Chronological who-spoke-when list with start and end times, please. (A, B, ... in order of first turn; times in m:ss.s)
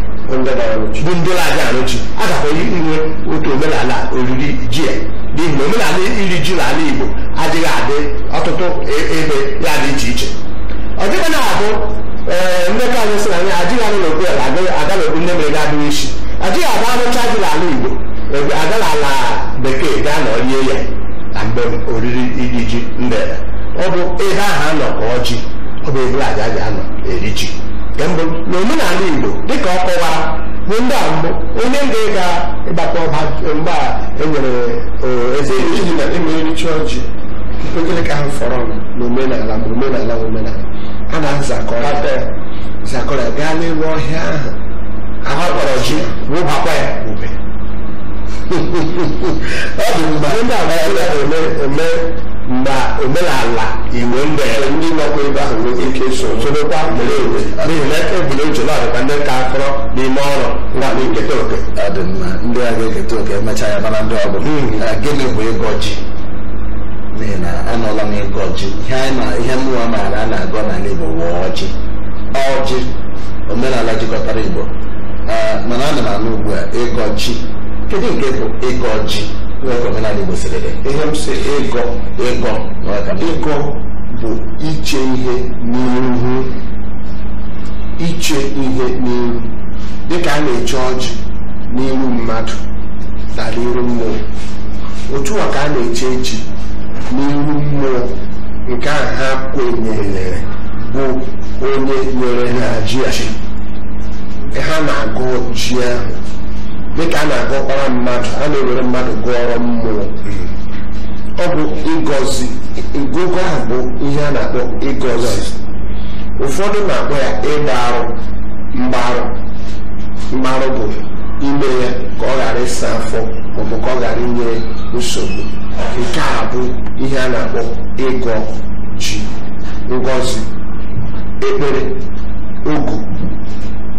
0:00.2-0:01.1 A
0:01.0-0:10.3 B
0:11.0-0:35.9 B
0:35.4-0:37.1 A
0:37.6-0:42.1 A
0:41.8-0:42.3 B
0:42.8-0:44.6 A
0:45.2-0:47.3 B
0:45.3-0:46.1 A
0:48.5-0:51.2 C
0:50.2-0:54.8 B
0:54.5-0:57.5 A
0:55.8-1:01.7 B
1:00.8-1:01.3 A
1:01.7-1:06.0 C
1:04.4-1:04.8 B
1:07.1-1:11.7 C
1:12.3-1:12.9 C
1:13.5-1:14.7 C
1:15.3-1:20.8 C
1:20.8-1:22.1 A
1:22.2-1:23.5 C
1:23.2-1:26.5 A
1:28.0-1:29.5 A
1:30.0-1:31.2 A
1:31.7-1:32.6 A
1:33.3-1:34.2 A
1:35.1-1:36.4 A
1:37.1-1:38.1 A
1:38.6-1:42.9 A
1:40.0-1:40.4 B
1:42.5-1:43.3 B
1:44.5-1:46.1 A
1:46.9-1:50.2 A
1:51.4-1:55.6 A
1:55.1-1:55.5 B
1:56.4-1:58.2 A
1:58.7-1:59.4 A
2:00.3-2:09.3 A
2:09.9-2:10.4 A
2:11.4-2:12.0 A
2:12.6-2:13.2 A